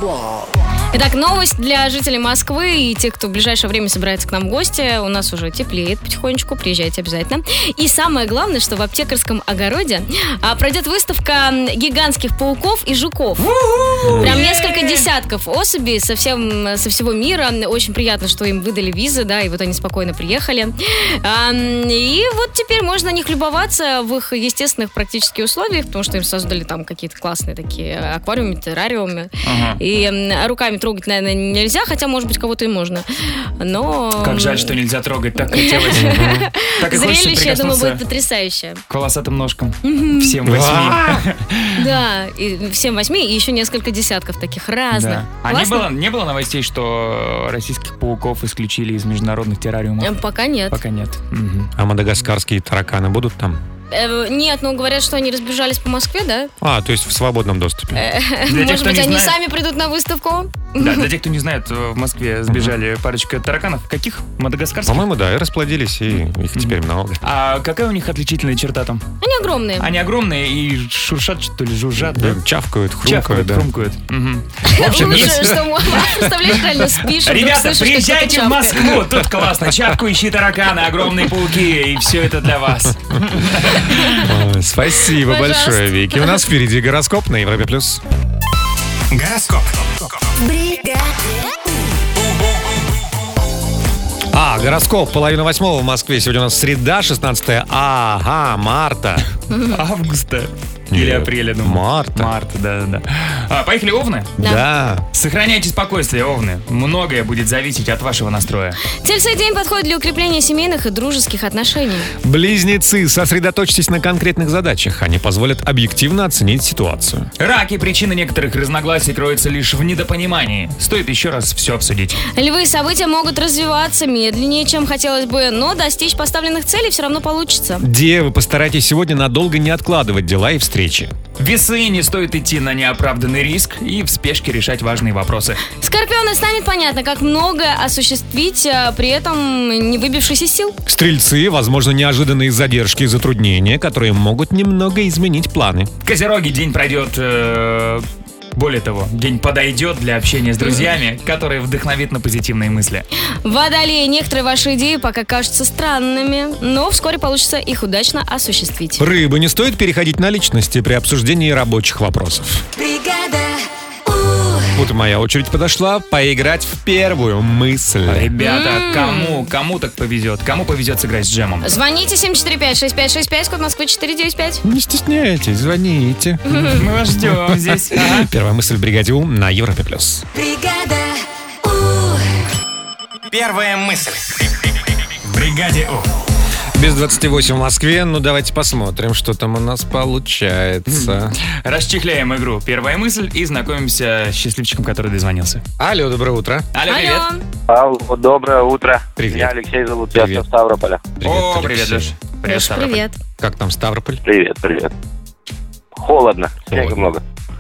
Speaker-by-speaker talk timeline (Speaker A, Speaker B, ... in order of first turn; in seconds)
Speaker A: 0.9-13.4, 14.2-34.8, 35.5-38.8, 39.8-40.4, 41.8-45.9, 50.0-50.8, 53.9-56.5, 58.0-61.1, 69.2-69.9, 74.7-78.8, 83.9-84.2, 85.2-86.4, 99.5-99.8, 108.9-112.1, 122.3-127.8, 135.8-140.8, 153.4-159.0, 168.4-169.5, 171.6-174.6, 176.5-176.8, 196.9-197.4, 202.5-203.2
Speaker B: 13.4-15.1, 29.4-29.8, 34.2-38.0, 38.9-41.9, 44.9-50.2, 50.7-51.7, 58.5-59.4, 60.8-65.1, 66.5-69.0, 69.8-72.4, 73.0-75.7, 77.2-84.2, 99.7-104.4, 105.1-108.8, 117.4-122.2, 131.4-135.6, 146.1-153.1, 168.1-171.7, 176.7-178.3, 190.9-195.6, 196.7-197.3, 201.2-203.0
Speaker C: 14.0-14.4, 35.9-36.5, 40.4-41.2, 51.8-53.6, 56.6-58.0, 62.5-62.8, 64.8-67.2, 72.0-73.7, 74.9-76.1, 84.2-88.0, 94.3-99.3, 100.9-102.3, 104.4-105.0, 112.2-117.3, 127.8-131.1, 140.9-145.9, 159.0-162.7, 164.8-168.3, 174.6-176.6, 177.2-180.2, 186.8-191.4, 195.8-196.7, 199.2-199.5, 200.1-200.4, 201.2-202.1, 203.4-204.2, 206.7-207.1
Speaker D: 89.1-90.2, 183.3-184.3, 185.3-186.1
Speaker E: 162.8-164.7, 180.3-182.2
Speaker F: 197.7-201.0, 204.2-204.9, 205.9-207.2